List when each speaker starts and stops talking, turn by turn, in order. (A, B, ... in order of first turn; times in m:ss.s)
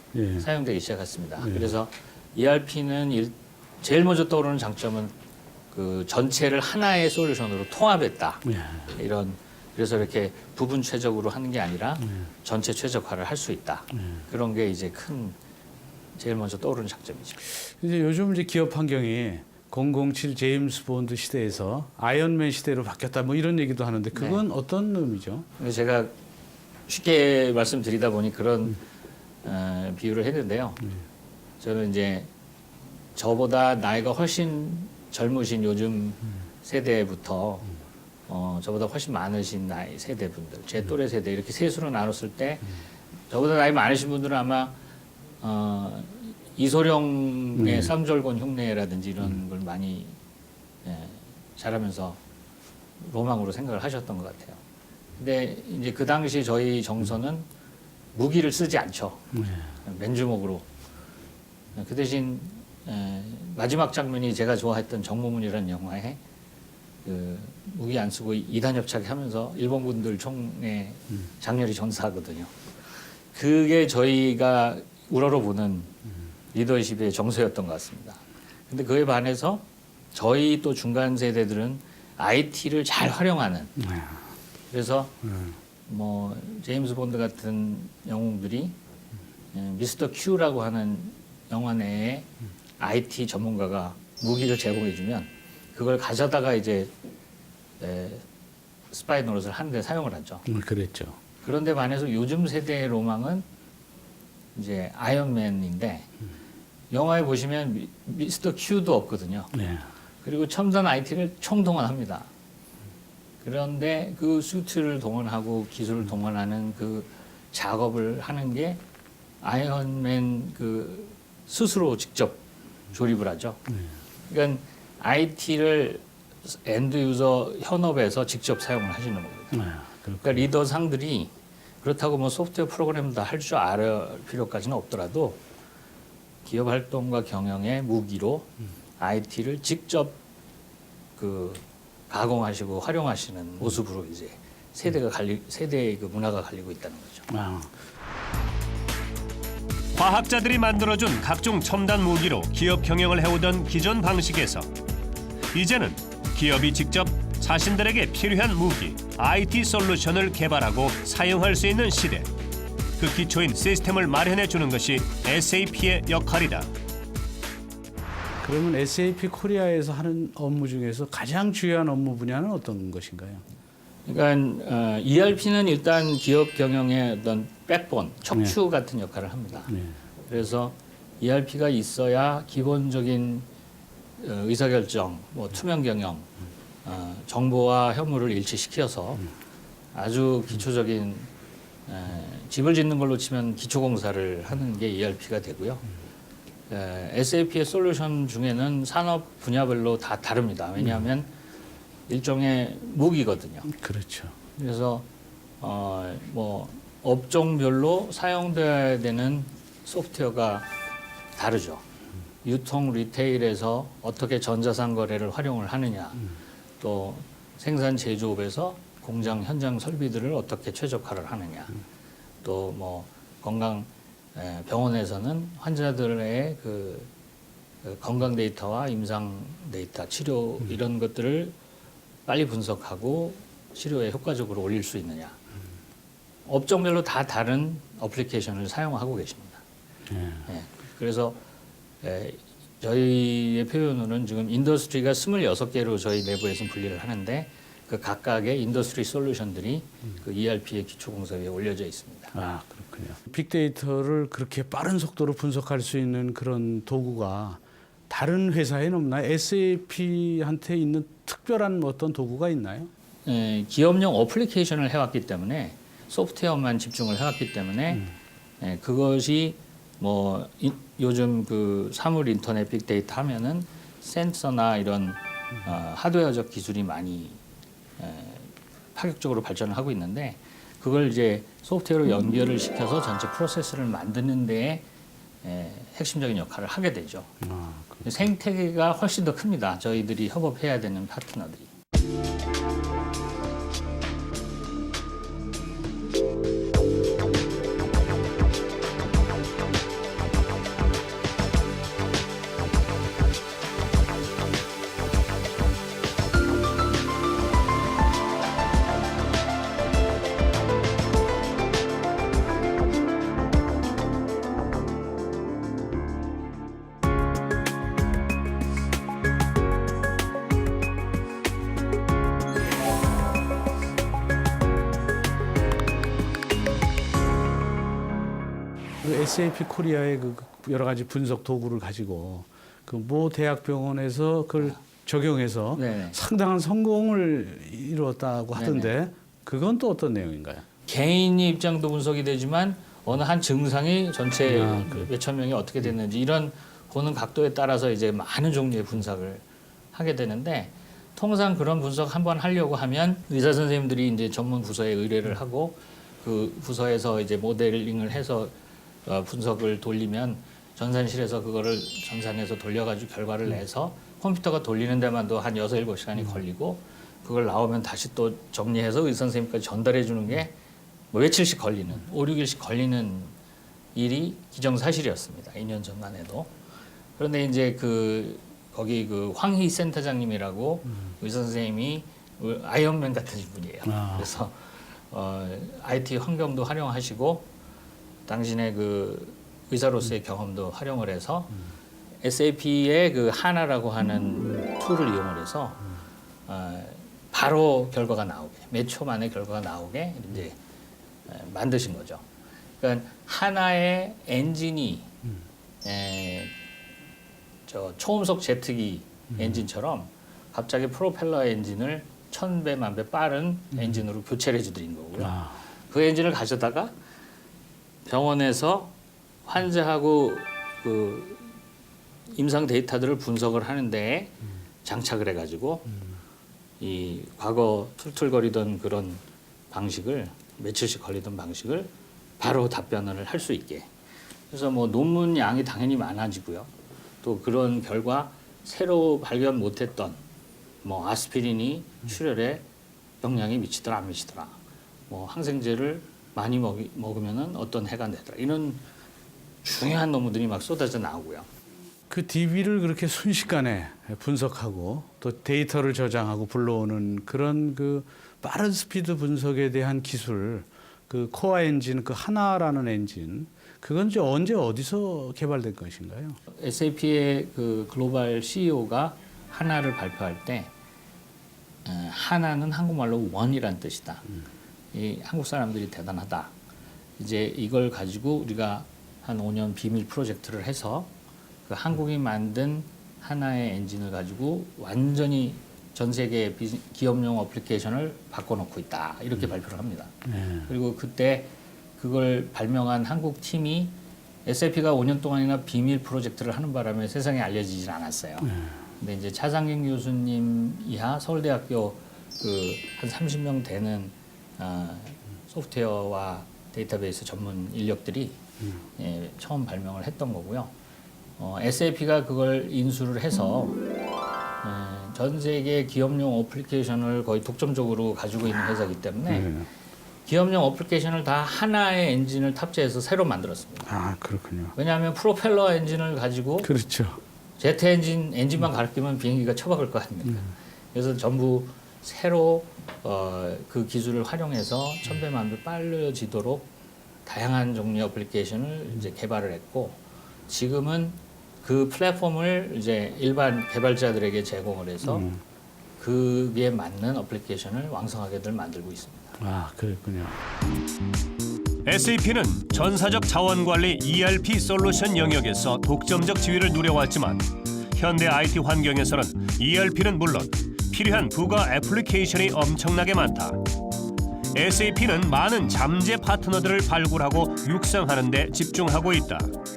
0:00.1-0:00.4 A
0:00.4-0:05.1 B
0:05.7-0:15.4 B
0:08.5-0:08.8 A
0:16.2-0:17.4 B
0:17.6-0:25.4 A
0:24.1-0:24.4 B
0:25.6-0:26.1 B
0:26.9-0:28.8 B
0:29.4-0:30.8 B
0:31.6-0:32.3 B
0:33.2-0:37.7 B
0:38.3-0:42.7 B
0:43.3-0:44.8 B
0:45.4-0:50.2 B
0:47.6-0:47.9 A
0:50.8-0:52.2 B
0:53.0-0:54.6 B
0:55.2-0:57.5 B
0:58.1-0:59.3 B
0:59.4-0:59.6 A
0:59.8-1:00.6 B
1:01.7-1:06.2 B
1:07.0-1:12.5 B
1:13.3-1:15.9 B
1:16.5-1:23.7 B
1:23.8-1:24.2 A
1:24.7-1:25.2 B
1:25.3-1:25.5 A
1:25.9-1:28.8 B
1:29.5-1:32.3 B
1:32.8-1:36.9 B
1:37.8-1:38.2 B
1:38.9-1:40.4 B
1:40.4-1:41.2 A
1:41.4-1:43.4 B
1:44.5-1:46.1 B
1:46.9-1:49.5 B
1:49.5-1:49.8 A
1:50.2-1:52.3 B
1:53.4-1:58.8 B
1:59.4-2:03.6 B
2:04.3-2:09.6 B
2:09.5-2:10.4 A
2:10.2-2:15.4 B
2:16.4-2:20.2 B
2:21.2-2:27.3 B
2:27.3-2:27.7 A
2:29.9-2:34.7 C
2:35.5-2:42.3 C
2:43.0-2:46.7 C
2:48.4-2:53.4 A
2:54.0-2:59.7 B
3:00.3-3:03.5 B
3:04.2-3:06.3 B
3:06.8-3:09.3 B
3:09.9-3:11.3 B
3:11.9-3:15.8 B
3:16.7-3:21.3 B
3:22.1-3:23.7 B
3:23.7-3:24.4 A
3:24.6-3:25.1 B
3:25.6-3:30.7 B
3:31.4-3:31.8 B
3:32.4-3:36.2 B
3:36.8-3:41.8 B
3:42.4-3:47.1 B
3:47.8-3:51.5 B
3:52.3-3:55.4 B
3:56.5-3:59.6 B
4:00.1-4:00.4 A
4:00.4-4:01.4 B
4:02.0-4:12.4 B
4:12.3-4:22.9 A
4:23.2-4:28.1 B
4:28.6-4:37.4 B
4:38.0-4:44.8 B
4:45.4-4:47.4 B
4:47.4-4:48.0 A
4:48.0-4:51.7 B
5:29.0-5:40.7 A
5:35.7-5:36.2 B
5:38.5-5:38.9 B
5:40.9-5:58.5 B
5:44.5-5:45.1 A
5:59.0-6:10.5 B
6:11.1-6:13.3 B
6:13.9-6:16.5 B
6:17.2-6:27.5 B
6:23.9-6:24.2 A
6:28.3-6:31.6 B
6:32.2-6:35.8 B
6:36.5-6:40.6 B
6:41.3-6:42.2 B
6:42.8-6:45.1 B
6:45.8-6:46.5 B
6:47.7-6:56.9 B
6:55.2-6:55.6 A
6:58.0-6:58.9 B
6:59.4-7:01.5 B
7:02.3-7:05.9 B
7:06.8-7:13.9 B
7:14.5-7:16.7 B
7:17.2-7:20.2 B
7:20.8-7:22.6 B
7:23.2-7:24.6 B
7:25.1-7:28.8 B
7:29.6-7:31.5 B
7:32.1-7:46.4 A
7:46.5-7:50.7 B
7:51.8-7:54.2 B
7:54.9-7:56.5 B
7:57.2-8:01.1 B
8:01.7-8:10.1 B
8:10.3-8:10.7 A
8:10.7-8:13.9 B
8:14.4-8:28.4 B
8:29.0-8:30.7 B
8:31.4-8:33.8 B
8:34.6-8:39.5 B
8:39.3-8:39.7 A
8:40.2-8:43.9 B
8:43.9-8:44.7 A
8:44.8-8:46.7 B
8:46.6-8:47.2 A
8:47.6-8:56.7 B
8:57.2-9:05.2 B
9:05.0-9:05.4 A
9:06.0-9:09.4 B
9:09.4-9:10.4 A
9:11.8-9:23.6 C
9:24.5-9:29.5 C